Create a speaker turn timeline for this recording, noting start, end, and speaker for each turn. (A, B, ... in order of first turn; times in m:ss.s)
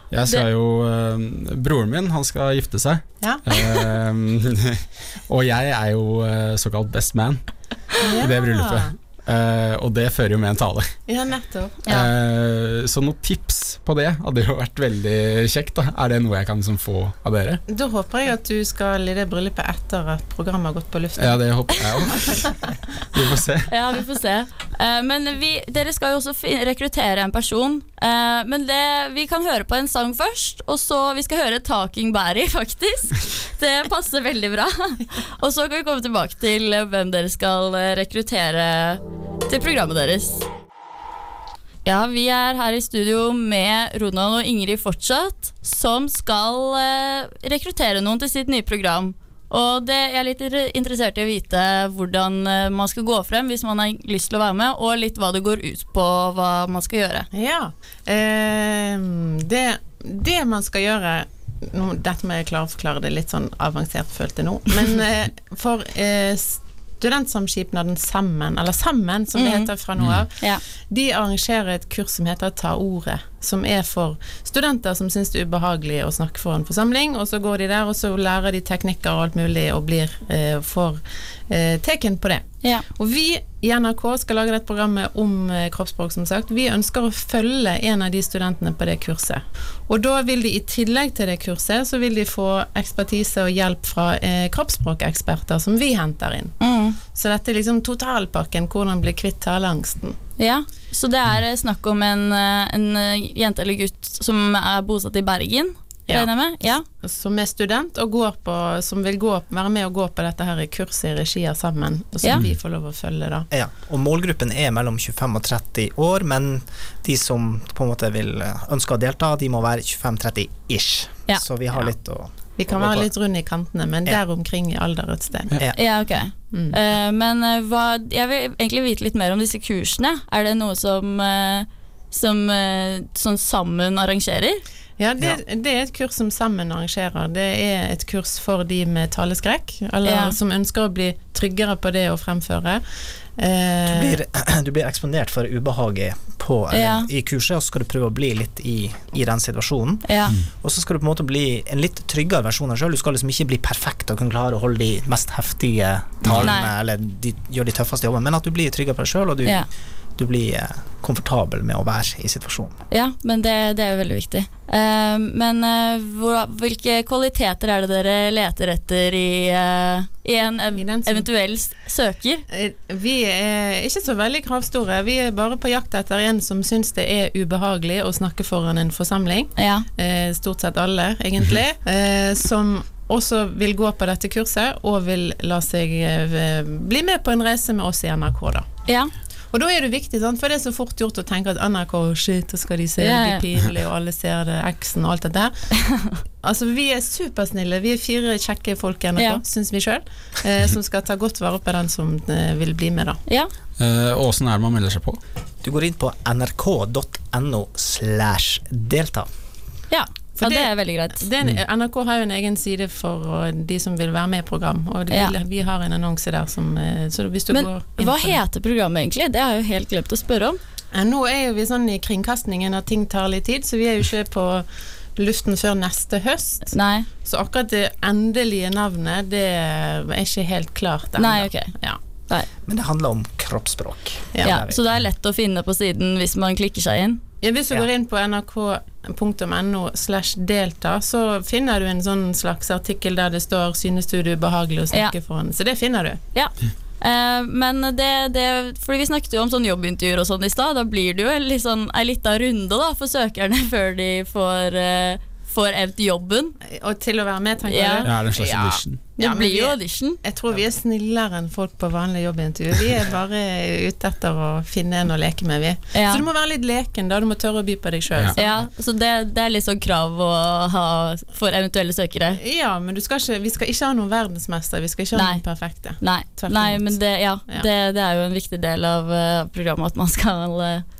0:00.1-0:07.4 A
0:03.2-0:03.5 B
0:08.0-0:08.9 B
0:08.0-0:10.9 A
0:11.1-0:11.9 B
0:11.9-0:17.6 A
0:17.7-0:21.6 B
0:21.2-0:22.6 A
0:23.1-0:23.7 A
0:23.7-0:40.4 C
0:41.8-0:57.3 C
0:57.3-1:40.2 B
1:09.3-1:09.7 C
1:36.6-1:37.0 C
1:40.4-1:46.8 C
1:47.0-1:53.5 B
1:53.5-2:03.0 D
2:02.6-2:05.6 B
2:05.7-2:14.6 C
2:06.5-2:06.8 B
2:15.0-2:22.8 B
2:20.0-2:20.4 C
2:23.4-2:24.2 B
2:23.9-2:30.1 D
2:26.7-2:27.1 C
2:30.0-2:30.4 C
2:30.6-2:39.6 D
2:36.2-2:36.6 A
2:36.4-2:36.7 C
2:40.2-2:42.7 D
2:42.9-2:52.4 C
2:50.7-2:51.3 B
2:52.5-3:08.7 B
2:59.6-2:59.8 C
3:08.9-3:09.1 C
3:09.5-3:15.5 B
3:13.0-3:13.4 C
3:15.9-3:16.1 C
3:16.4-3:23.2 B
3:19.2-3:19.4 C
3:23.8-3:25.2 A
3:25.6-3:29.3 D
3:29.9-3:31.3 C
3:30.4-3:38.4 B
3:37.5-3:40.6 C
3:40.9-3:52.0 B
3:46.7-3:47.1 C
3:51.2-3:51.7 C
3:52.6-3:54.8 D
3:54.3-3:54.6 B
3:54.4-3:57.2 C
3:57.4-4:06.2 B
4:06.3-4:16.5 C
4:16.7-4:18.3 B
4:17.7-4:20.2 C
4:18.0-4:19.0 A
4:19.2-4:28.6 B
4:25.9-4:26.2 C
4:28.4-4:32.4 C
4:32.3-4:37.7 B
4:35.1-4:35.4 C
4:36.0-4:40.8 C